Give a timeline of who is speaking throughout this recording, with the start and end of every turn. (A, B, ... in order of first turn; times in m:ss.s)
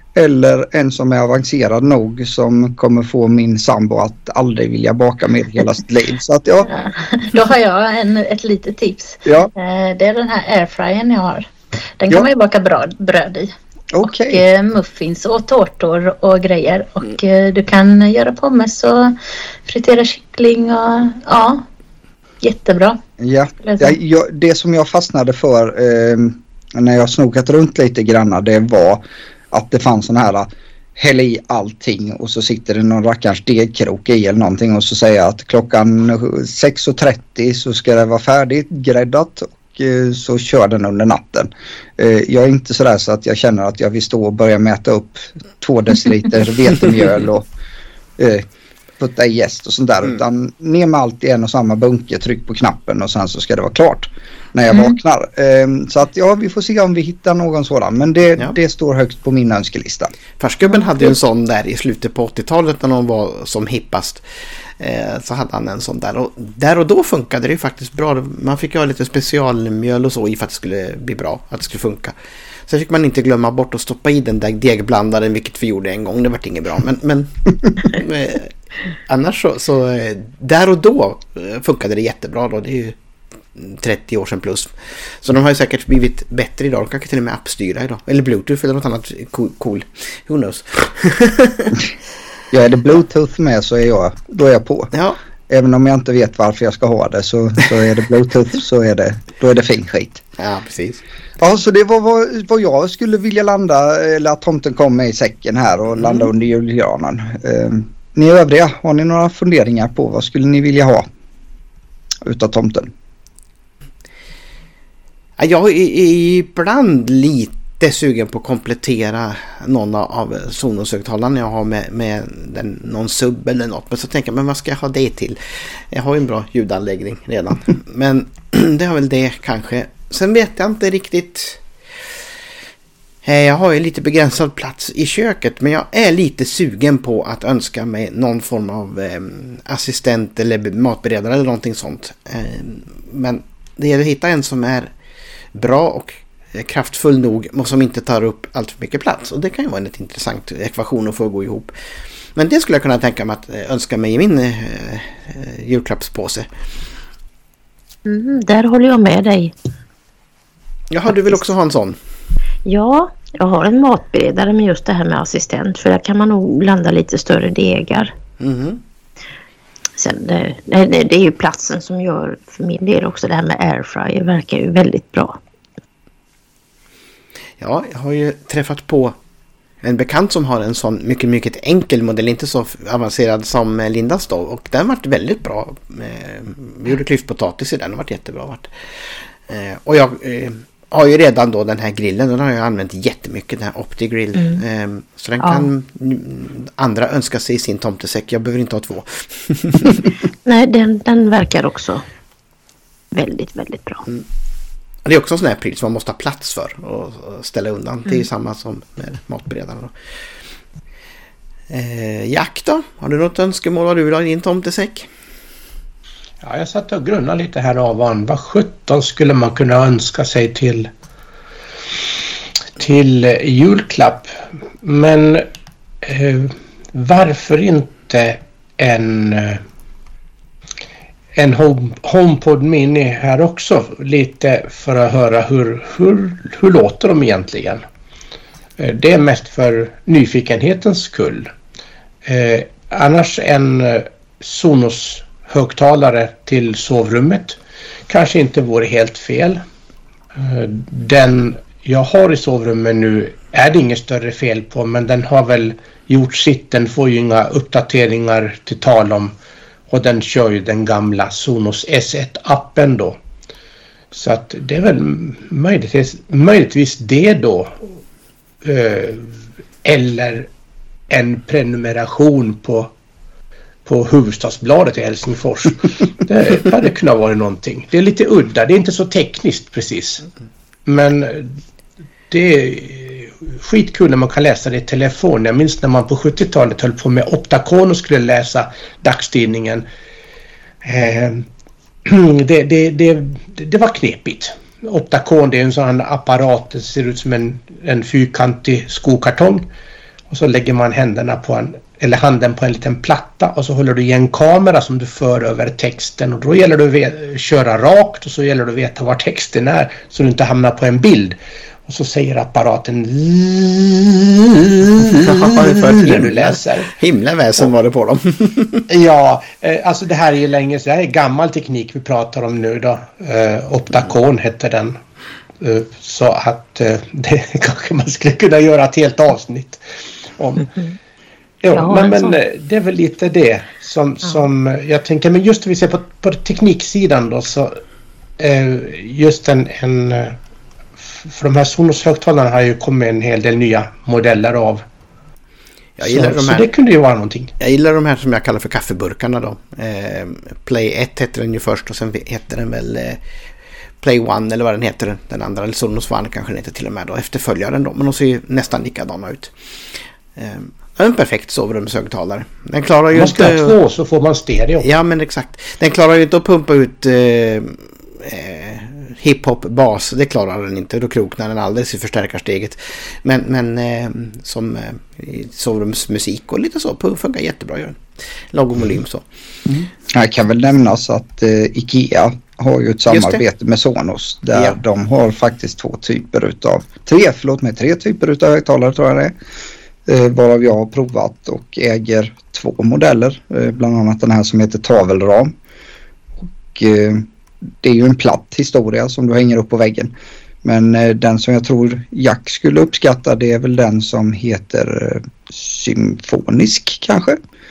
0:00.1-0:06.7 A
0:06.6-0:11.5 B
0:09.2-0:09.5 A
0:12.0-0:13.5 B
0:13.9-0:14.4 A
0:14.0-0:19.1 B
0:19.6-0:21.6 B
0:22.4-0:23.0 B
0:23.2-0:47.5 A
0:23.6-0:24.0 B
0:48.2-0:48.4 A
0:49.0-1:00.1 A
1:00.4-1:04.2 C
1:04.8-1:12.1 C
1:12.7-1:18.5 C
1:19.1-1:23.0 C
1:23.6-1:31.8 C
1:32.5-1:34.9 A
1:34.9-1:35.2 C
1:35.5-1:40.2 A
1:40.4-1:41.0 C
1:41.4-1:51.1 A
1:52.2-1:52.9 A
1:55.4-2:11.6 C
2:13.2-2:24.9 C
2:25.5-2:31.7 C
2:32.3-2:36.5 C
2:38.0-2:39.5 D
2:40.9-2:42.0 C
2:42.6-2:48.1 D
2:48.4-2:48.8 C
2:50.0-2:55.4 D
2:57.6-2:59.2 C
2:59.8-3:08.7 C
3:09.5-3:20.1 C
3:20.4-3:22.0 D
3:23.1-3:24.0 D
3:25.0-3:29.9 C
3:31.7-3:35.1 C
3:36.4-3:40.9 E
3:42.8-3:44.3 E
3:44.8-3:45.4 E
3:46.0-3:49.6 E
3:51.3-3:57.8 E
3:58.8-4:01.5 E
4:02.2-4:07.6 E
4:08.1-4:09.6 E
4:10.4-4:19.3 E
4:19.9-4:23.2 E
4:24.1-4:27.8 E
4:28.6-4:29.3 E
4:29.8-4:30.5 E
4:31.1-4:32.9 E
4:33.8-4:40.2 E
4:40.8-4:41.6 E
4:42.3-4:49.8 E
4:50.8-4:51.4 E
4:52.0-4:59.7 E
5:00.3-5:16.9 E
5:15.0-5:18.9 C
5:18.9-5:25.0 E
5:25.6-5:29.8 E
5:30.4-5:30.7 E
5:31.6-5:37.7 E
5:31.7-5:32.3 D
5:38.4-5:40.3 E
5:41.2-5:44.8 E
5:46.0-5:46.7 C
5:46.0-5:47.5 E
5:47.6-5:53.2 C
5:54.0-5:59.5 C
6:00.4-6:03.7 C
6:03.1-6:04.8 E
6:04.8-6:19.2 C
6:19.6-6:29.3 A
6:23.1-6:23.4 C
6:30.0-6:35.5 A
6:36.7-6:37.2 A
6:37.8-6:40.1 A
6:40.6-6:47.4 A